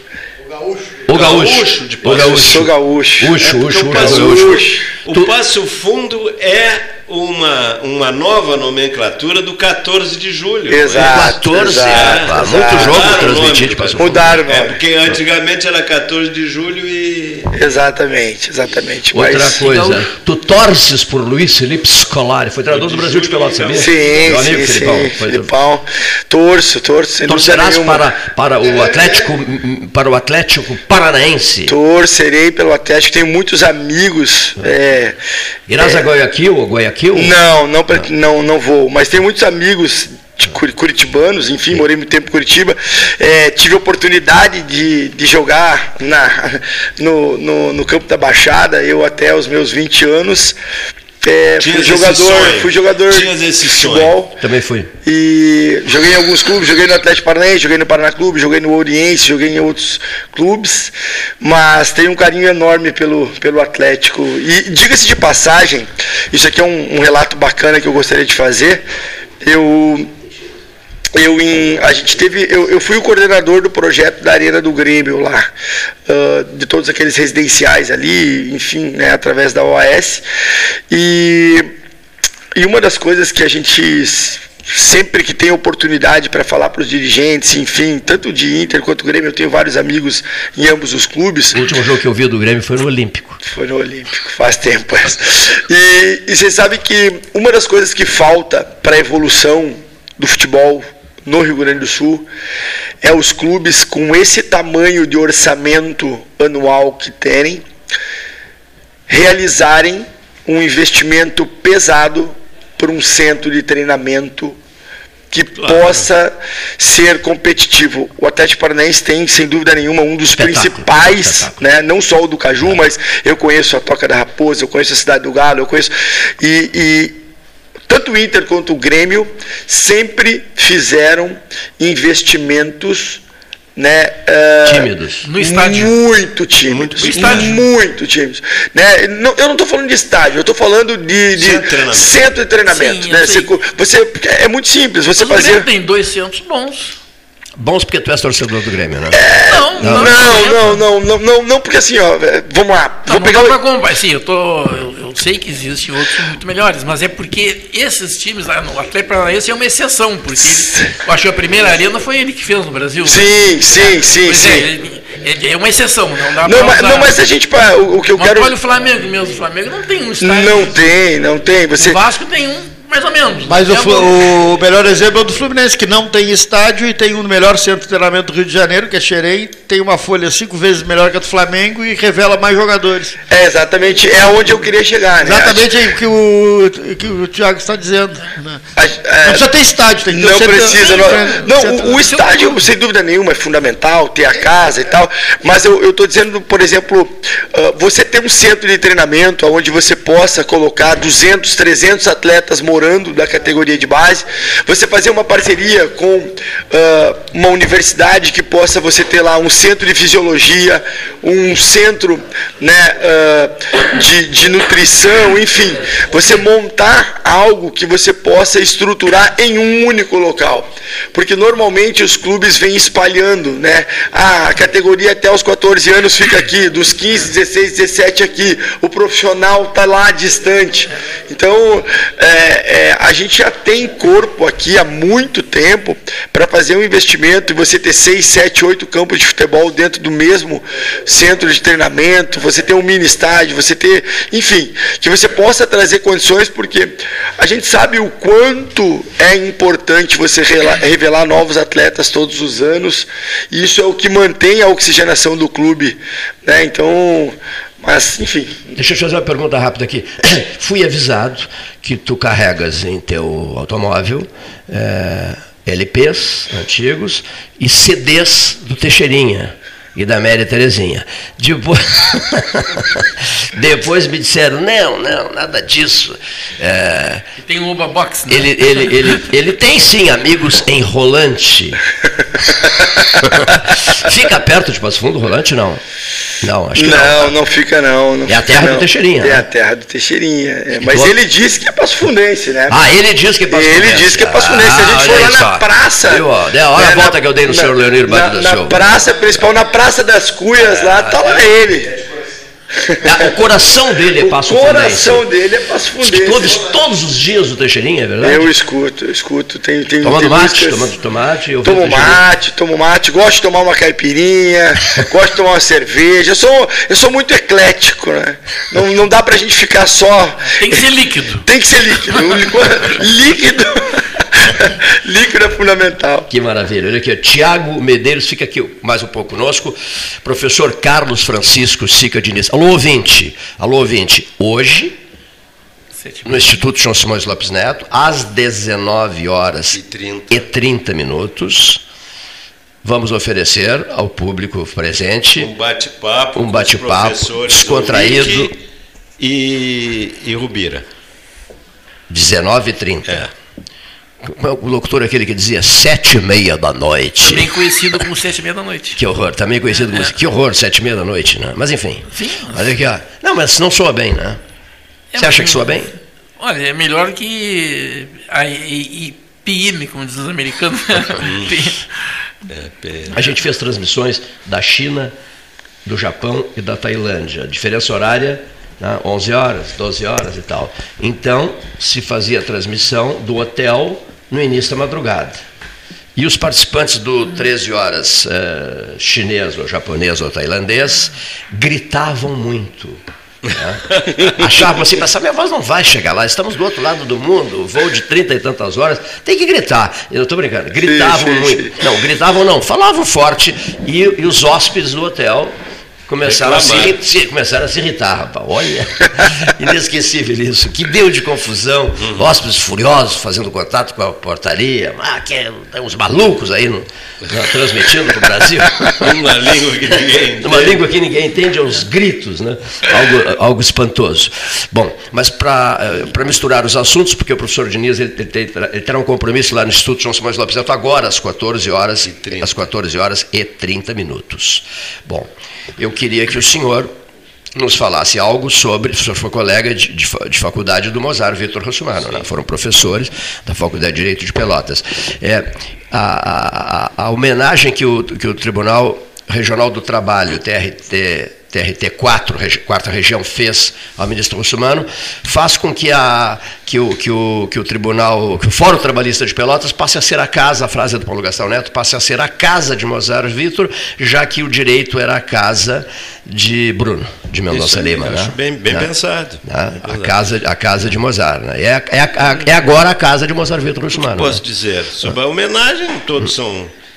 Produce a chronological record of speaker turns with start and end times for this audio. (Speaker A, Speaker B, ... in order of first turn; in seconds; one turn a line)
Speaker A: 0.5-1.1
Speaker B: 1.1-5.3
Speaker C: 1.1-2.7
Speaker D: 2.1-4.9
Speaker C: 3.9-11.3
Speaker D: 10.7-13.2
Speaker B: 11.0-14.4
Speaker C: 11.9-17.5
Speaker D: 14.0-14.8
Speaker D: 17.5-19.6
Speaker B: 19.1-25.5
Speaker E: 19.6-20.1
Speaker C: 22.7-24.5
Speaker D: 23.7-28.1
Speaker B: 27.3-31.8
Speaker D: 28.6-29.2
Speaker D: 31.7-35.2
Speaker B: 35.7-37.3
Speaker D: 35.8-36.0
Speaker D: 37.1-50.6
Speaker D: 51.2-54.4
Speaker C: 51.6-54.1
Speaker B: 54.4-54.9
Speaker D: 55.0-68.8
Speaker D: 69.4-70.1
Speaker D: 71.1-75.5
Speaker D: 76.1-80.2
Speaker D: 80.9-81.7
Speaker D: 82.5-91.6
Speaker B: 91.5-93.4
Speaker D: 93.4-102.3
Speaker D: 103.0-107.6
Speaker D: 109.1-114.6
Speaker D: 115.3-127.2
Speaker C: 115.6-116.1
Speaker B: 120.3-121.7
Speaker D: 127.9-133.2
Speaker D: 133.8-145.7
Speaker B: 134.7-135.3
Speaker E: 135.2-135.9
Speaker C: 136.7-137.6
Speaker E: 137.0-137.6
Speaker C: 141.3-142.2
Speaker E: 142.7-143.5
Speaker E: 145.2-147.0
Speaker B: 147.6-149.2
Speaker D: 149.1-153.6
Speaker E: 149.5-150.8
Speaker B: 149.8-150.2
Speaker E: 153.1-163.3
Speaker D: 160.4-160.9
Speaker D: 163.0-164.7
Speaker E: 163.8-167.2
Speaker D: 166.4-168.5
Speaker E: 168.1-170.9
Speaker D: 170.2-172.0
Speaker E: 171.8-174.1
Speaker A: 173.5-183.2
Speaker D: 183.3-185.7
Speaker A: 185.2-188.7
Speaker D: 188.8-189.5
Speaker A: 189.2-192.1
Speaker D: 190.1-258.8
Speaker E: 190.8-192.6
Speaker B: 258.8-277.3
Speaker E: 277.4-279.3
Speaker B: 278.3-281.8
Speaker D: 282.4-283.1
Speaker B: 283.1-285.8
Speaker B: 286.4-287.3
Speaker D: 286.8-292.9
Speaker B: 288.3-289.4
Speaker B: 290.8-291.1
Speaker B: 292.7-298.8
Speaker D: 293.5-302.0
Speaker B: 300.6-301.5
Speaker D: 302.8-303.3
Speaker B: 303.0-305.2
Speaker D: 304.1-306.6
Speaker B: 306.0-308.5
Speaker D: 308.2-310.9
Speaker B: 310.0-312.2
Speaker D: 311.6-320.8
Speaker E: 320.5-321.5
Speaker D: 321.4-326.3
Speaker B: 326.3-335.0
Speaker E: 335.9-336.6
Speaker B: 336.2-341.8
Speaker C: 339.7-340.4
Speaker B: 342.8-345.5
Speaker C: 345.4-348.6
Speaker B: 346.4-348.5
Speaker C: 349.2-350.9
Speaker B: 352.1-353.3
Speaker C: 353.1-353.3
Speaker B: 354.2-358.0
Speaker E: 357.2-359.0
Speaker B: 359.0-364.4
Speaker E: 359.8-360.1
Speaker E: 362.1-362.6
Speaker E: 365.1-372.2
Speaker B: 365.2-365.9
Speaker C: 371.2-371.6
Speaker C: 372.5-373.2
Speaker B: 373.1-375.1
Speaker B: 375.9-385.4
Speaker B: 386.2-405.6
Speaker D: 400.8-401.7
Speaker B: 406.1-419.1
Speaker C: 406.2-406.9
Speaker C: 419.0-420.8
Speaker B: 420.4-436.9
Speaker C: 432.0-432.5
Speaker B: 437.6-468.9
Speaker C: 467.5-470.1
Speaker B: 469.4-474.4
Speaker C: 473.9-476.7